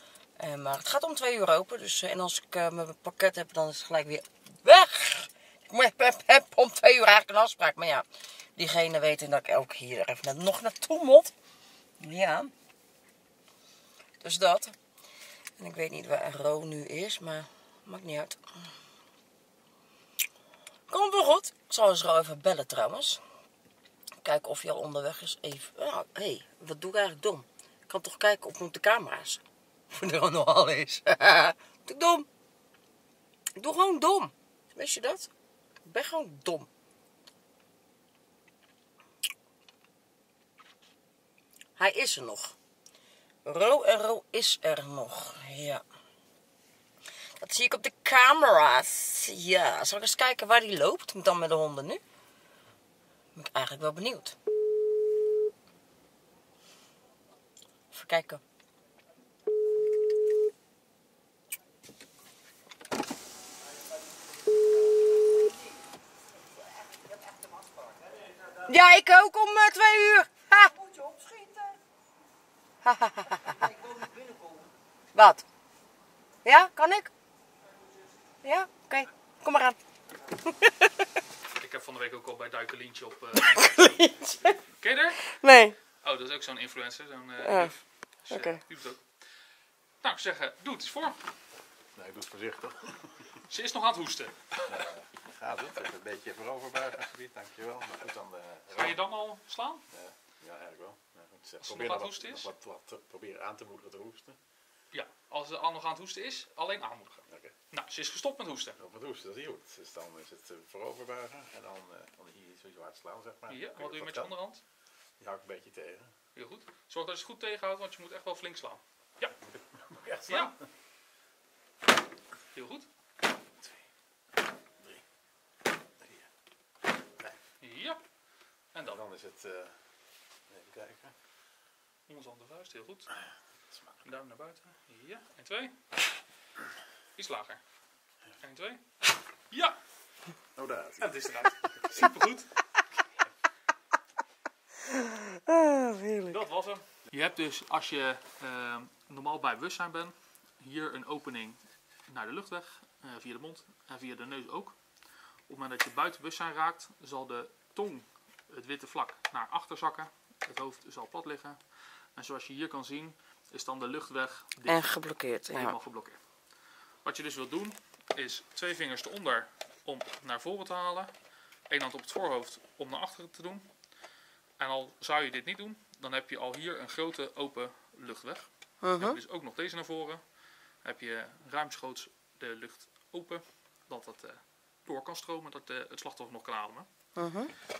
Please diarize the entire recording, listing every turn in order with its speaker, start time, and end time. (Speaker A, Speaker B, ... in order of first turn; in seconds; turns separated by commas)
Speaker A: 0.4-11.3, Speaker A: 12.0-12.5, Speaker A: 14.2-14.8, Speaker A: 15.6-18.7, Speaker A: 20.9-23.2, Speaker A: 24.2-32.3, Speaker A: 33.5-35.3, Speaker A: 35.8-36.7, Speaker A: 41.8-42.5, Speaker A: 43.4-45.8, Speaker A: 47.4-52.0, Speaker A: 53.3-54.4, Speaker A: 57.9-58.4, Speaker A: 68.6-71.7, Speaker A: 72.8-73.7, Speaker A: 75.1-75.4, Speaker A: 76.4-77.1, Speaker A: 78.4-79.8, Speaker A: 80.4-80.9, Speaker B: 81.5-84.1, Speaker A: 83.5-84.6, Speaker B: 84.8-85.3, Speaker A: 85.3-85.8, Speaker B: 86.0-91.2, Speaker A: 87.4-87.8, Speaker A: 88.3-88.6, Speaker C: 91.9-93.3, Speaker B: 93.5-94.4, Speaker C: 94.6-99.0, Speaker B: 98.7-99.8, Speaker C: 99.9-104.4, Speaker B: 101.6-102.5, Speaker B: 104.9-108.8, Speaker C: 107.3-107.5, Speaker C: 108.8-114.3, Speaker B: 113.5-114.6, Speaker C: 115.2-116.1, Speaker B: 116.3-119.3, Speaker C: 119.5-120.6, Speaker B: 120.3-120.5, Speaker B: 122.5-122.9, Speaker C: 124.8-125.0, Speaker C: 126.0-126.3, Speaker B: 127.6-128.0, Speaker B: 128.7-129.0, Speaker C: 128.8-129.8, Speaker C: 130.5-131.1, Speaker B: 132.1-133.1, Speaker C: 133.7-134.0, Speaker B: 134.0-135.8, Speaker B: 137.2-137.6, Speaker B: 138.4-138.8, Speaker B: 139.5-139.8, Speaker C: 140.6-141.9, Speaker B: 141.0-142.5, Speaker A: 144.8-146.4, Speaker B: 146.3-154.8, Speaker B: 155.5-166.2, Speaker A: 164.7-165.8, Speaker B: 167.0-171.1, Speaker B: 171.7-173.7, Speaker B: 174.6-180.2, Speaker A: 178.8-179.2, Speaker B: 180.8-186.9, Speaker A: 187.1-187.5